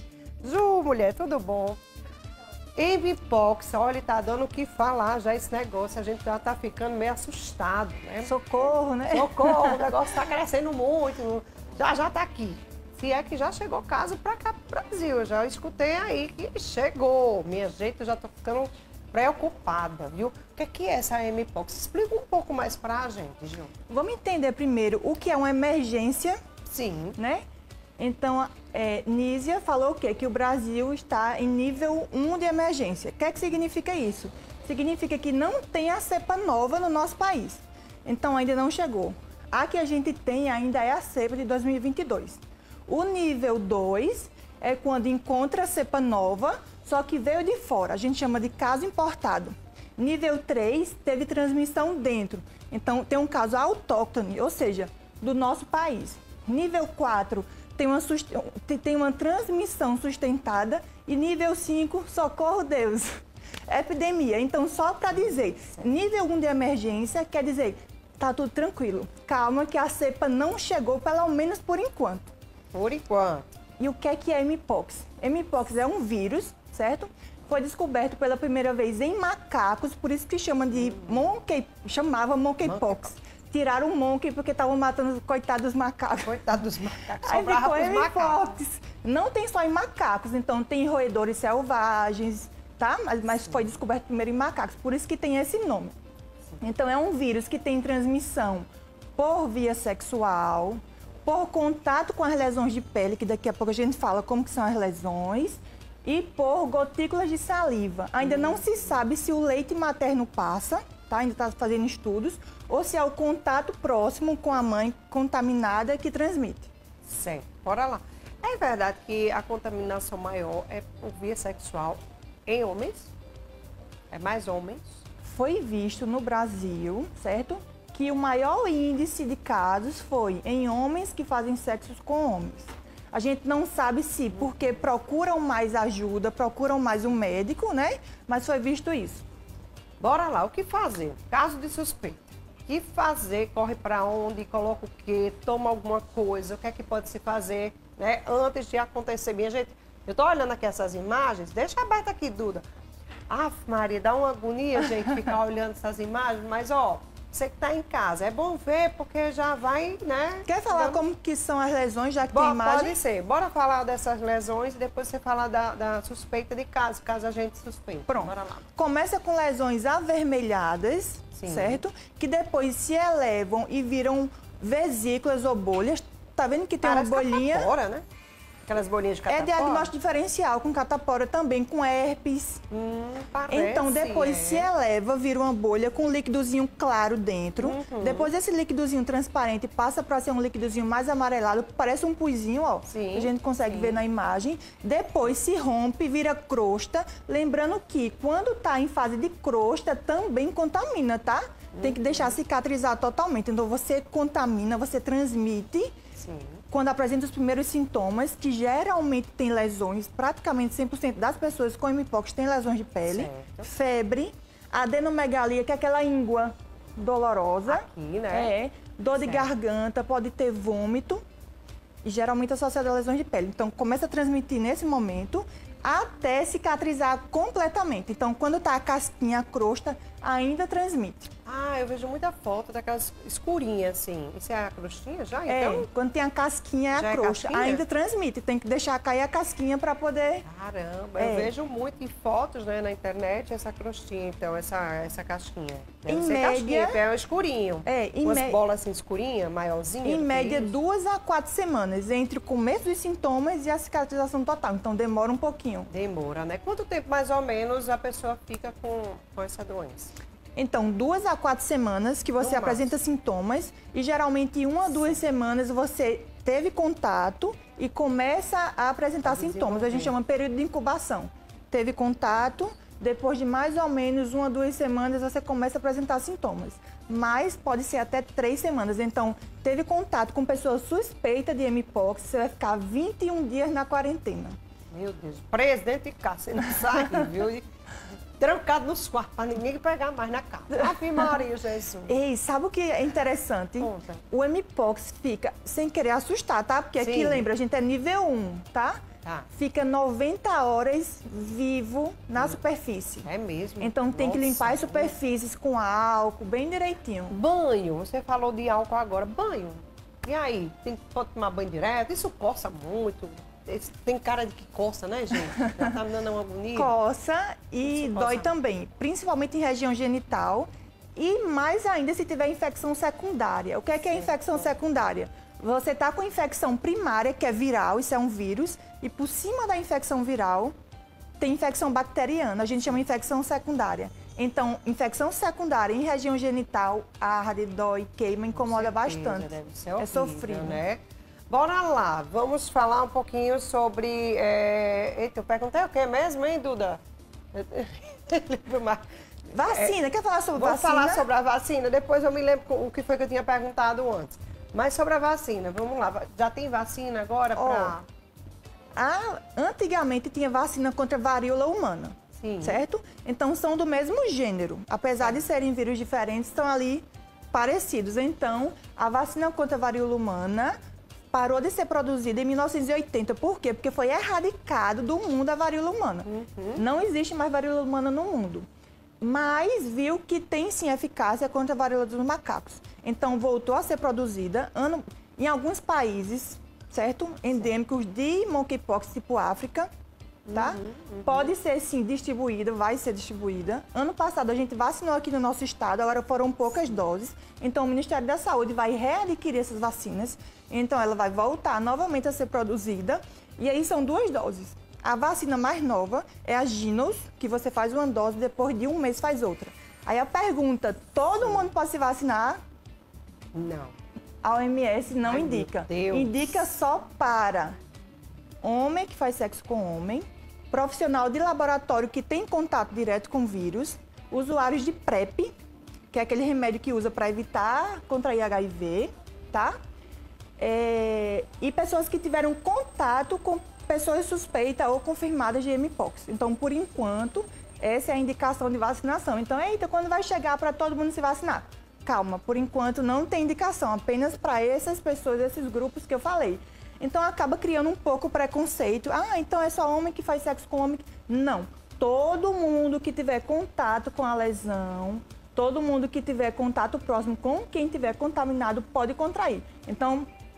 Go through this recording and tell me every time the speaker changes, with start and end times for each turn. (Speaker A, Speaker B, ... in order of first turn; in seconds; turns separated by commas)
Speaker A: 0.4-1.8, Speaker A: 2.8-8.3, Speaker B: 8.2-10.0, Speaker A: 9.1-23.7, Speaker B: 23.9-26.4, Speaker A: 26.6-27.2, Speaker B: 27.2-27.4, Speaker B: 28.0-63.1, Speaker B: 63.7-72.3, Speaker A: 72.7-73.5, Speaker B: 73.8-86.4, Speaker A: 82.6-83.1, Speaker A: 86.2-88.4, Speaker B: 87.2-95.9, Speaker B: 96.6-116.7, Speaker A: 108.2-108.7, Speaker A: 117.0-123.1, Speaker A: 124.1-125.0, Speaker B: 125.2-139.2, Speaker A: 140.0-152.6, Speaker A: 153.3-161.0, Speaker B: 160.4-163.0, Speaker A: 162.2-168.6, Speaker B: 168.1-177.7, Speaker A: 171.3-171.8, Speaker A: 176.8-178.0, Speaker A: 178.7-179.9, Speaker B: 179.3-182.6, Speaker A: 182.7-184.7, Speaker B: 183.5-205.9, Speaker A: 187.6-188.3, Speaker A: 192.9-194.0, Speaker A: 201.7-202.4, Speaker A: 206.2-206.6, Speaker B: 206.7-221.2, Speaker A: 213.1-213.7, Speaker A: 217.7-218.5, Speaker A: 219.2-219.5, Speaker B: 222.0-231.3, Speaker A: 231.4-235.9, Speaker B: 235.4-240.4, Speaker A: 236.9-237.8, Speaker A: 240.4-250.8, Speaker B: 241.2-241.5, Speaker B: 246.1-247.0, Speaker B: 247.8-248.6, Speaker B: 250.0-255.9, Speaker A: 255.9-260.1, Speaker B: 260.6-284.6, Speaker A: 262.4-262.9, Speaker A: 269.2-270.1, Speaker A: 284.9-287.7, Speaker B: 286.8-287.3, Speaker A: 288.4-292.2, Speaker B: 290.7-291.4, Speaker B: 292.1-299.0, Speaker A: 293.8-294.2, Speaker A: 297.0-297.4, Speaker A: 299.2-299.5, Speaker B: 299.5-303.3, Speaker A: 303.2-305.1, Speaker B: 303.8-307.4, Speaker A: 307.3-316.9, Speaker B: 316.7-330.7, Speaker A: 317.8-318.5, Speaker B: 331.4-340.8, Speaker A: 338.5-347.0, Speaker A: 347.5-349.0, Speaker B: 349.5-351.3, Speaker A: 349.5-350.0, Speaker A: 350.5-358.0, Speaker B: 357.5-357.9, Speaker B: 358.9-370.8, Speaker A: 362.3-362.8, Speaker B: 371.3-378.6, Speaker A: 376.2-376.8, Speaker B: 379.2-389.9, Speaker A: 390.4-391.5, Speaker B: 390.5-412.6, Speaker A: 413.5-413.9, Speaker B: 414.4-417.8, Speaker A: 415.2-416.6, Speaker B: 418.6-425.5, Speaker B: 426.1-429.7, Speaker B: 430.6-460.3